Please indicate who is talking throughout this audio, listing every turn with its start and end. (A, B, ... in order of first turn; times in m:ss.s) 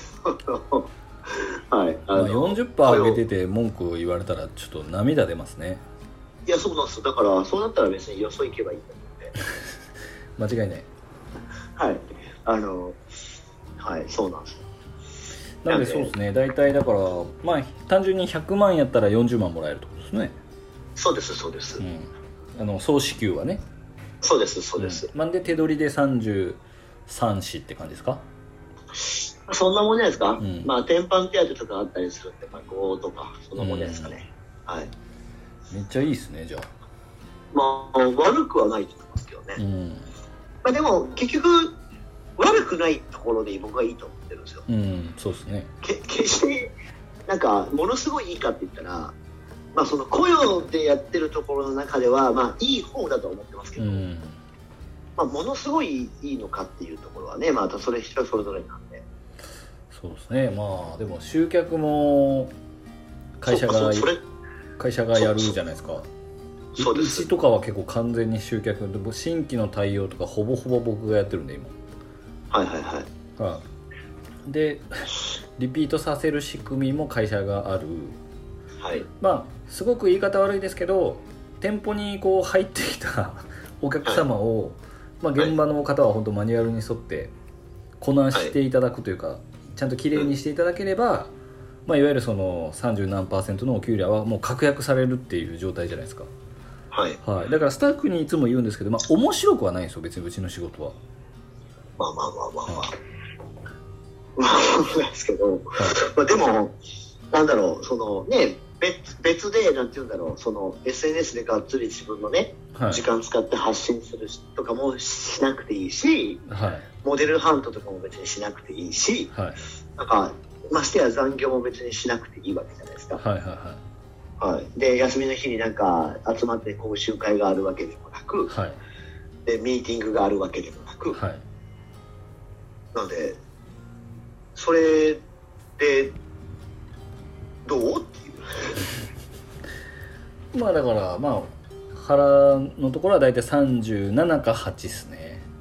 0:00.2-0:03.2 A
0:02.1-0:05.8 B
0:06.4-0:09.3 A
0:10.4-0:10.9 B
0:11.8-0:13.0 A
0:13.8-0:14.6 A
0:15.6-0:20.4 B
0:15.7-0:16.1 A
0:21.0-0:21.8 A
0:21.8-0:23.6 B
0:24.2-0:25.1 A
0:24.8-0:28.2 B
0:29.0-0:34.9 A
0:30.4-0:30.7 B
0:33.6-0:34.2 B
0:35.7-0:36.7 B
0:37.5-0:39.6 A
0:39.6-0:40.1 B
0:40.6-0:41.8 A
0:42.4-0:44.6 A
0:44.7-0:45.7 B
0:45.8-0:46.7 A
0:47.2-0:49.1 A
0:49.7-0:54.0 A
0:53.8-0:54.4 B
0:55.2-0:59.0 A
0:59.9-1:02.5 B
1:03.4-1:04.1 B
1:03.5-1:04.2 A
1:04.8-1:06.1 B
1:05.2-1:05.6 A
1:06.8-1:07.3 A
1:06.8-1:11.7 B
1:12.5-1:13.1 A
1:13.4-1:13.6 B
1:14.4-1:18.2 B
1:18.8-1:19.1 A
1:19.2-1:27.3 B
1:28.0-1:31.3 B
1:31.8-1:36.3 B
1:36.9-1:37.2 A
1:37.2-1:41.0 B
1:42.0-1:42.9 A
1:44.4-1:46.8 A
1:47.3-1:56.4 A
1:52.7-1:53.0 B
1:56.5-1:56.9 B
1:57.0-1:59.3 A
1:59.3-1:59.6 B
2:00.0-2:03.2 A
2:03.2-2:03.8 B
2:04.4-2:08.5 A
2:08.5-2:08.8 B
2:09.4-2:11.2 A
2:11.1-2:11.4 B
2:12.9-2:13.4 A
2:14.5-2:15.2 A
2:15.8-2:16.2 A
2:17.6-2:18.8 A
2:20.5-2:25.4 B